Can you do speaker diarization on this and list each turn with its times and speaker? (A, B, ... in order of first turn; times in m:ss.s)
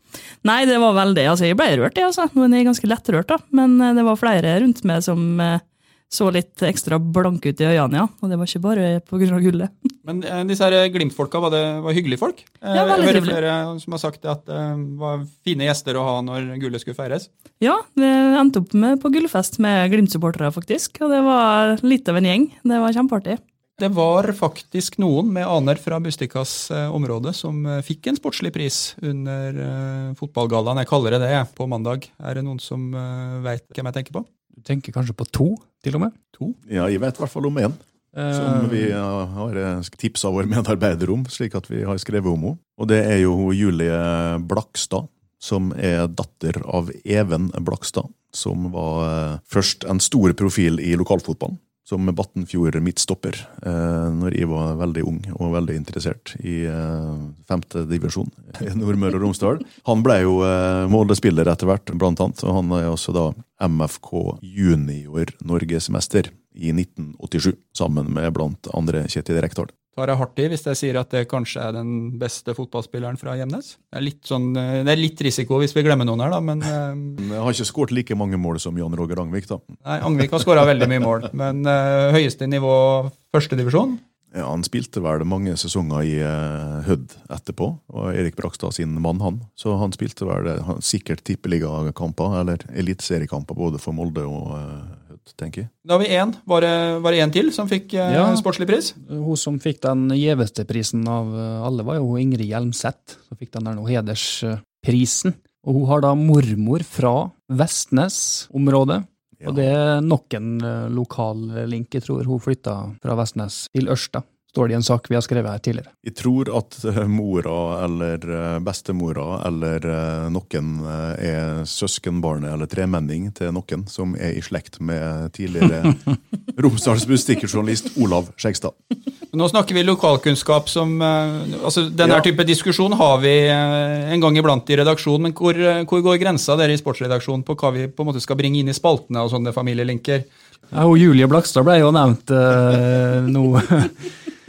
0:00.4-0:09.7 A
0:10.0-0:17.3 B
0:12.7-0:13.4 A
0:17.6-0:23.4 A
0:23.8-0:34.3 B
0:34.6-0:36.2 C
0:36.6-0:37.8 D
0:38.1-0:39.0 C
0:38.3-1:09.7 D
1:10.0-1:17.2 B
1:17.2-1:19.7 D
1:19.8-1:24.0 B
1:24.3-1:35.7 D
1:35.8-1:39.0 B
1:38.1-1:38.4 C
1:39.0-1:55.9 C
1:49.4-1:49.7 D
1:56.0-2:08.8 D
2:09.3-2:20.3 B
2:20.7-2:24.1 C